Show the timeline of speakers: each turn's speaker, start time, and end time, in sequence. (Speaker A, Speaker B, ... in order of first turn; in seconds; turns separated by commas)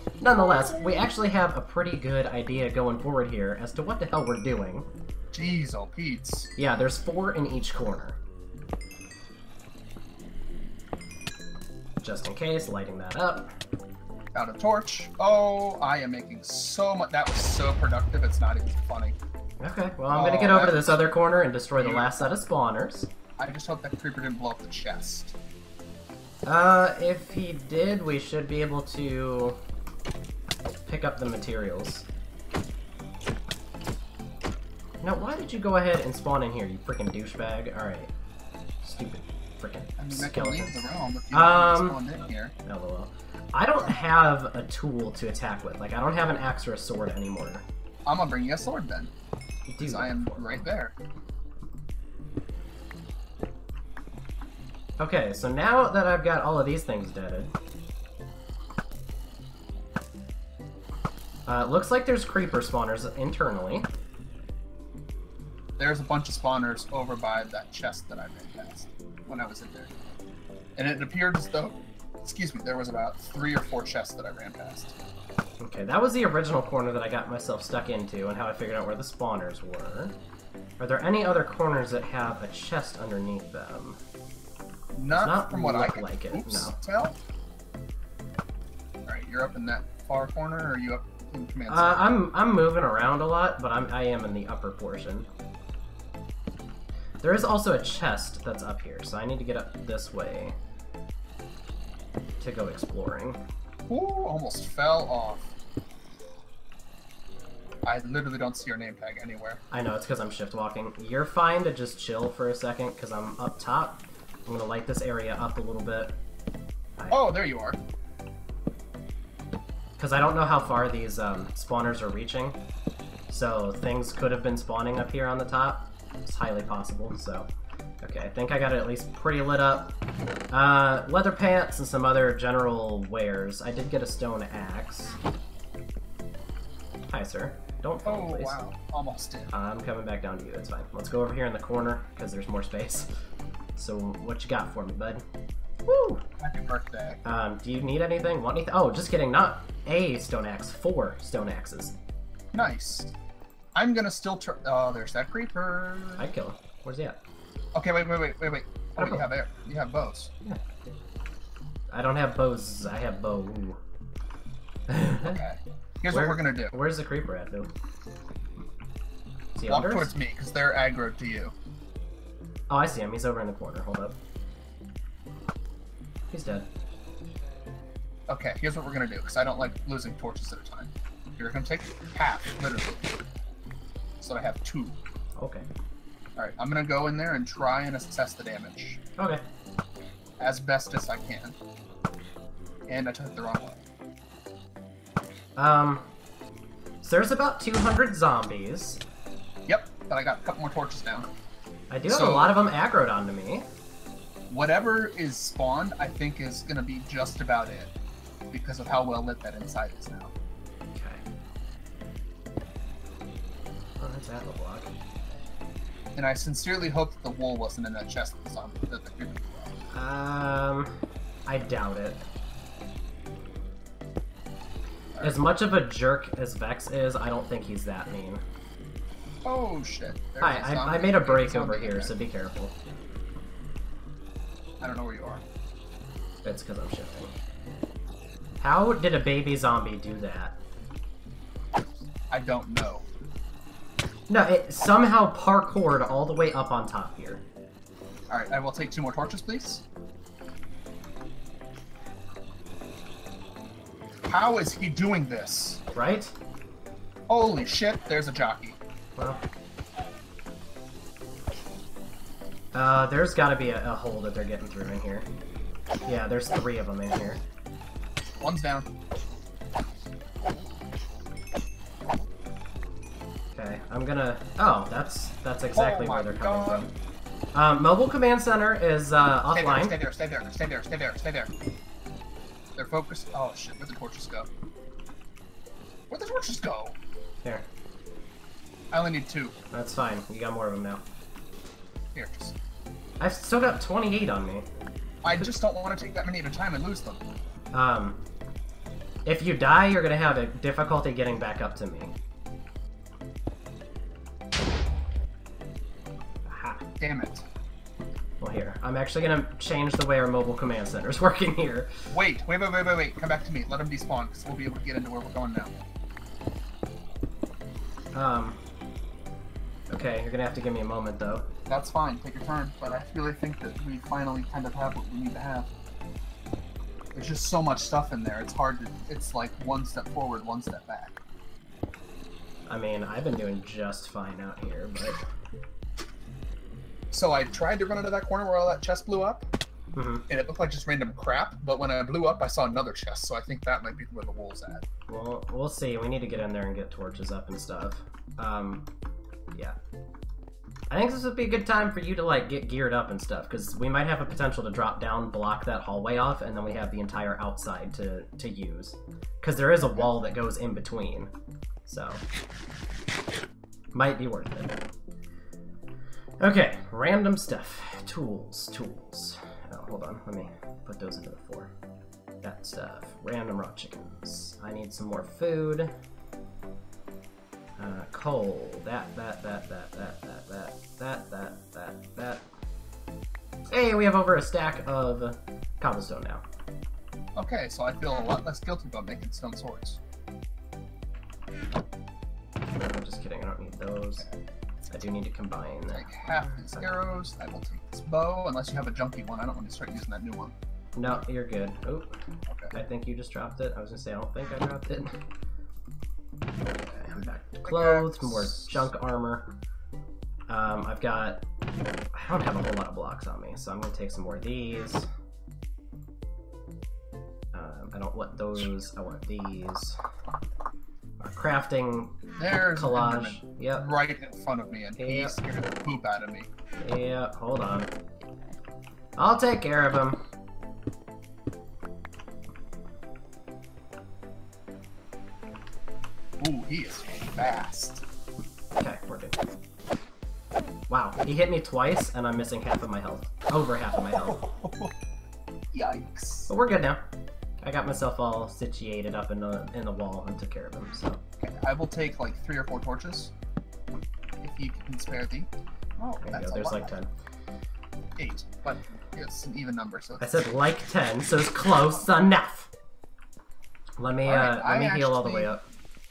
Speaker A: 0.2-4.9, Speaker B: 0.4-0.9, Speaker B: 5.3-6.5, Speaker A: 6.6-8.2, Speaker A: 12.0-13.5, Speaker B: 14.3-19.2, Speaker A: 19.6-23.1, Speaker B: 20.1-21.1, Speaker B: 21.7-22.3, Speaker B: 23.4-25.4, Speaker A: 26.5-29.6, Speaker A: 30.9-32.1, Speaker A: 35.0-38.1, Speaker A: 38.8-40.8, Speaker B: 40.0-42.5, Speaker A: 41.3-42.0, Speaker A: 42.6-47.6, Speaker B: 48.1-49.1, Speaker A: 49.7-50.7, Speaker B: 49.8-51.0, Speaker A: 55.0-57.5, Speaker A: 61.5-63.9, Speaker B: 65.8-69.9, Speaker B: 70.8-75.0, Speaker A: 75.6-80.2, Speaker A: 80.8-84.0, Speaker B: 84.9-87.2, Speaker A: 85.1-86.8, Speaker B: 89.1-92.2, Speaker A: 91.7-95.3, Speaker A: 97.2-100.6, Speaker A: 102.4-103.4, Speaker B: 103.9-105.5, Speaker B: 107.8-109.6, Speaker A: 109.7-116.2, Speaker A: 117.0-117.3, Speaker B: 117.1-117.8, Speaker A: 120.0-122.6, Speaker A: 123.3-127.5, Speaker A: 128.0-129.9, Speaker A: 130.5-135.2, Speaker A: 137.1-138.6, Speaker B: 138.1-139.5, Speaker A: 139.5-143.1, Speaker A: 143.8-145.2, Speaker A: 145.9-146.2, Speaker B: 146.4-147.2, Speaker A: 147.2-152.0, Speaker B: 152.5-153.2, Speaker B: 153.8-156.3, Speaker A: 156.2-157.2, Speaker B: 157.7-160.3, Speaker A: 159.0-159.3, Speaker A: 161.9-163.8, Speaker A: 164.9-165.4, Speaker B: 165.2-166.8, Speaker A: 166.1-167.7, Speaker A: 169.6-170.1, Speaker B: 169.6-171.6, Speaker A: 172.7-174.2, Speaker A: 176.3-176.7, Speaker B: 178.3-183.1, Speaker B: 184.2-185.0, Speaker A: 185.4-185.7, Speaker B: 186.4-189.0, Speaker A: 189.2-189.4, Speaker B: 190.4-191.6, Speaker B: 192.9-193.8, Speaker A: 195.6-196.1, Speaker A: 197.0-199.0, Speaker B: 199.7-201.3, Speaker A: 201.9-203.7, Speaker B: 202.1-202.6, Speaker B: 204.5-207.9, Speaker B: 208.5-210.3, Speaker A: 210.9-211.2, Speaker A: 214.0-214.9, Speaker B: 216.2-219.8, Speaker A: 219.9-220.9, Speaker A: 221.5-222.2, Speaker B: 225.2-225.4, Speaker A: 225.2-228.4, Speaker B: 229.4-232.2, Speaker A: 230.4-232.7, Speaker B: 234.8-235.4, Speaker A: 236.4-237.3, Speaker A: 238.6-240.6, Speaker B: 242.3-243.1, Speaker A: 244.3-247.4, Speaker B: 248.3-249.8, Speaker B: 254.3-255.8, Speaker A: 255.9-256.3, Speaker B: 257.3-258.8, Speaker A: 259.2-259.4, Speaker A: 262.7-265.3, Speaker A: 266.1-267.4, Speaker B: 268.4-268.9, Speaker A: 273.5-276.9, Speaker B: 275.7-276.9, Speaker A: 277.5-280.0, Speaker B: 279.5-281.5, Speaker B: 282.8-284.5, Speaker B: 286.1-287.0, Speaker B: 288.9-289.6, Speaker A: 289.7-291.0, Speaker B: 292.1-292.6, Speaker A: 293.2-294.6, Speaker B: 295.2-297.2, Speaker A: 297.7-298.2, Speaker A: 299.3-302.1, Speaker A: 306.5-306.9, Speaker B: 307.0-307.5, Speaker A: 308.4-311.9, Speaker B: 312.1-315.8, Speaker A: 318.1-318.6, Speaker A: 319.9-321.5, Speaker B: 321.7-325.7, Speaker B: 327.1-331.2, Speaker A: 332.7-335.2, Speaker B: 337.1-339.4, Speaker A: 339.9-340.3, Speaker B: 340.3-344.8, Speaker A: 345.1-348.9, Speaker A: 350.9-361.3, Speaker A: 361.9-362.2, Speaker A: 363.9-364.8, Speaker A: 366.4-371.7, Speaker A: 372.4-375.9, Speaker A: 377.8-382.4, Speaker A: 383.7-386.4, Speaker B: 387.4-390.0, Speaker A: 392.8-394.3, Speaker A: 394.9-396.9, Speaker B: 395.9-400.6, Speaker A: 401.0-402.1, Speaker B: 402.5-402.7, Speaker A: 402.7-405.2, Speaker A: 406.8-409.5, Speaker B: 407.7-408.8, Speaker A: 410.5-411.4, Speaker A: 412.1-415.1, Speaker A: 417.5-420.0, Speaker A: 421.2-423.9, Speaker B: 422.4-426.5, Speaker A: 425.0-425.4, Speaker A: 426.8-427.9, Speaker A: 429.2-430.2, Speaker B: 436.4-438.0, Speaker A: 438.8-439.4, Speaker A: 440.9-444.4, Speaker B: 443.9-444.9, Speaker B: 445.7-446.5, Speaker A: 446.5-447.0, Speaker A: 447.6-451.2, Speaker B: 451.4-453.3, Speaker B: 454.4-456.9, Speaker A: 456.2-457.1, Speaker B: 458.2-460.5, Speaker A: 460.2-462.7, Speaker A: 464.0-465.6, Speaker B: 464.2-465.5